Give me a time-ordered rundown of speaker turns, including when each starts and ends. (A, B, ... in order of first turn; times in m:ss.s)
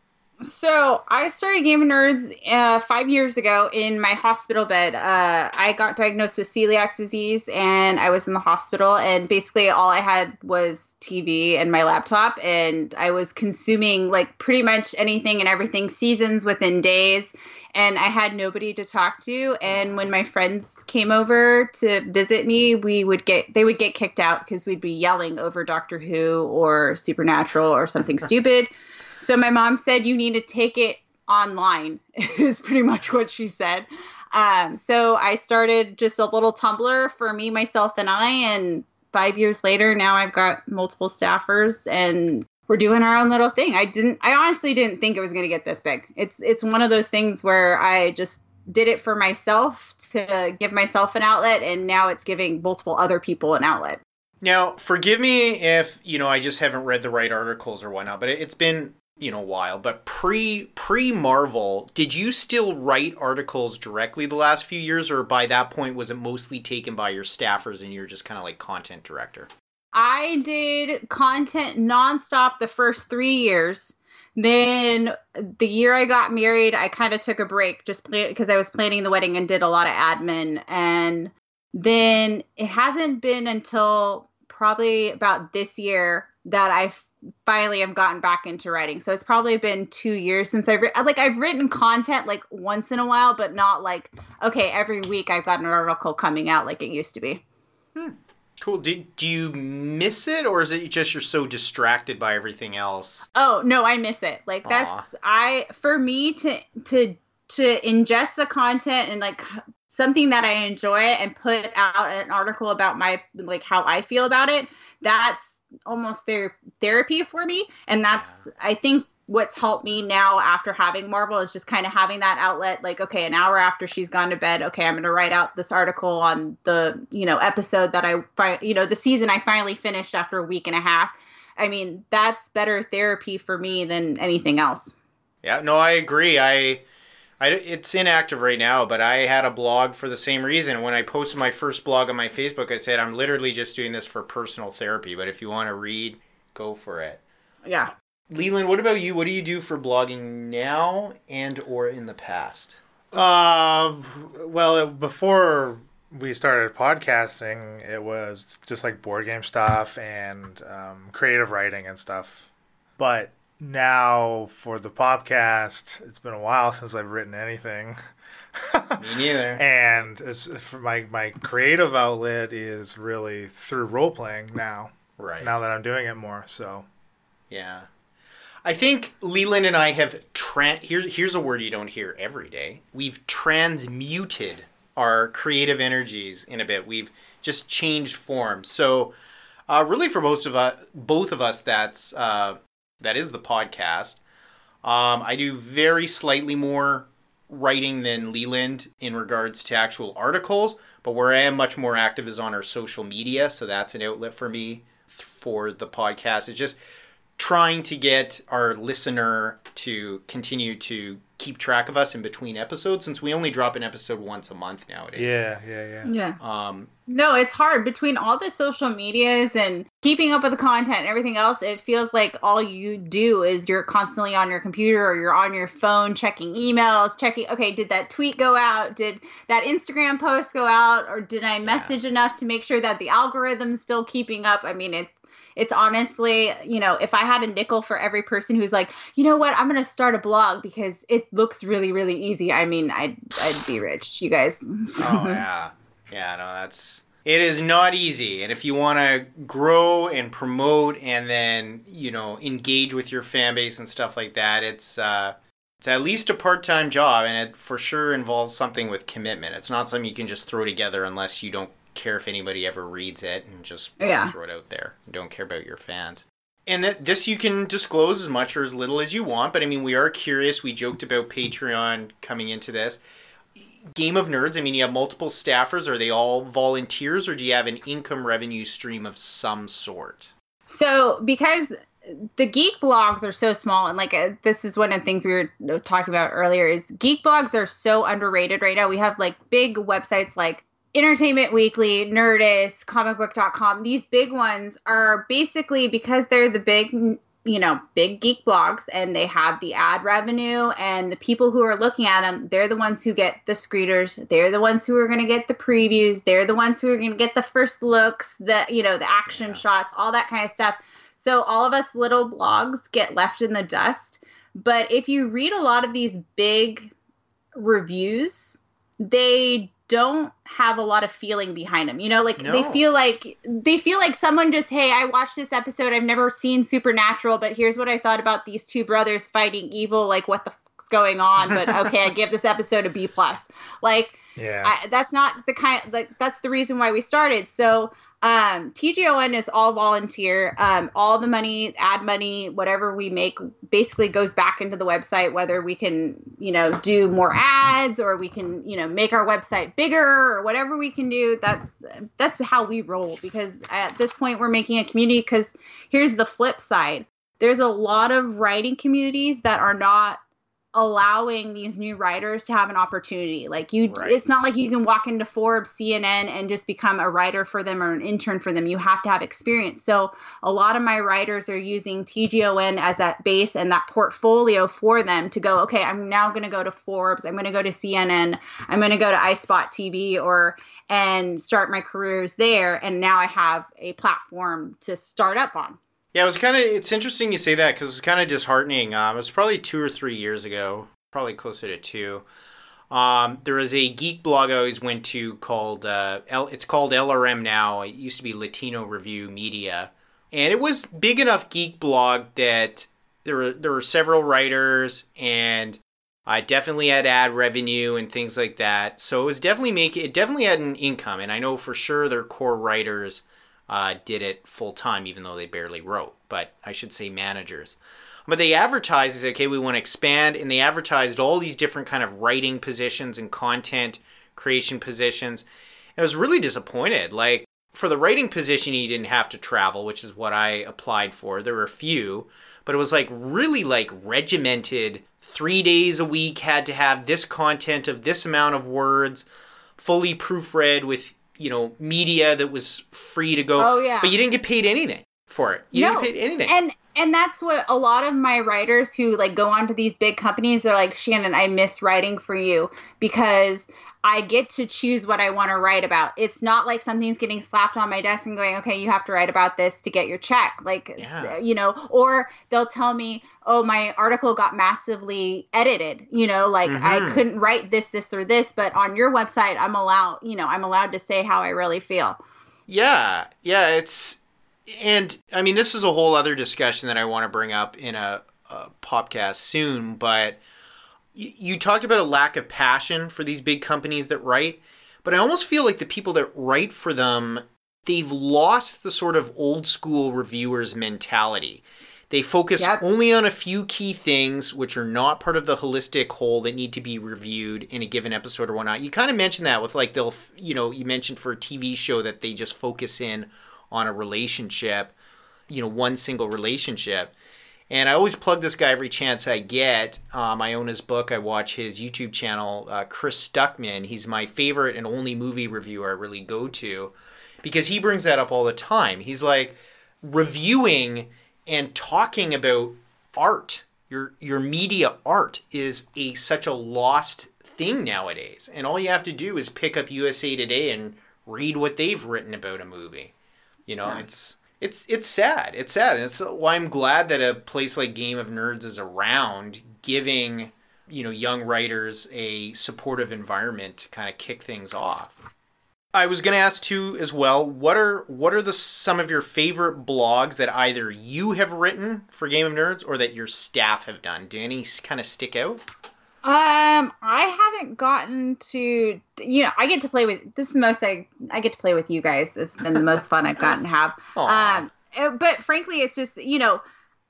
0:00.4-0:28.7 A
0:29.2-0:54.0 A
0:54.4-1:09.5 B
1:09.9-1:37.4 A
1:38.0-1:43.3 B
1:43.3-2:14.9 A
1:44.6-1:45.1 B
1:58.1-1:58.4 B
2:15.4-2:16.8 B
2:17.4-2:27.2 B
2:27.6-2:27.9 A
2:28.3-2:32.8 B
2:33.1-2:42.5 C
2:43.0-2:48.0 C
2:48.6-2:56.9 C
2:49.0-2:49.6 B
2:55.2-2:55.5 B
2:57.5-2:57.9 B
2:58.6-3:09.1 B
3:09.7-3:14.2 B
3:14.8-3:26.8 B
3:27.4-3:35.4 B
3:35.2-3:36.1 C
3:36.0-3:36.4 A
3:36.4-3:36.9 B
3:37.1-4:05.4 A
3:51.6-3:51.9 B
4:05.0-4:33.0 B
4:24.0-4:24.3 A
4:33.6-4:40.3 B
4:40.7-5:16.9 A
5:09.3-5:09.6 B
5:17.6-6:00.2 A
5:22.4-5:22.9 B
5:31.4-5:31.9 B
5:34.4-5:34.7 C
6:00.8-6:25.8 A
6:03.8-6:04.4 B
6:26.1-6:32.3 B
6:32.9-7:19.3 B
7:19.8-7:26.6 B
7:23.6-7:24.2 A
7:25.8-7:52.2 A
7:41.0-7:41.4 B
7:46.6-7:47.3 B
7:52.7-8:00.4 B
8:01.2-8:24.9 B
8:25.5-8:27.2 B
8:27.7-8:53.1 B
8:53.7-9:05.2 B
9:05.9-9:15.6 B
9:16.2-9:26.6 A
9:24.2-9:24.7 B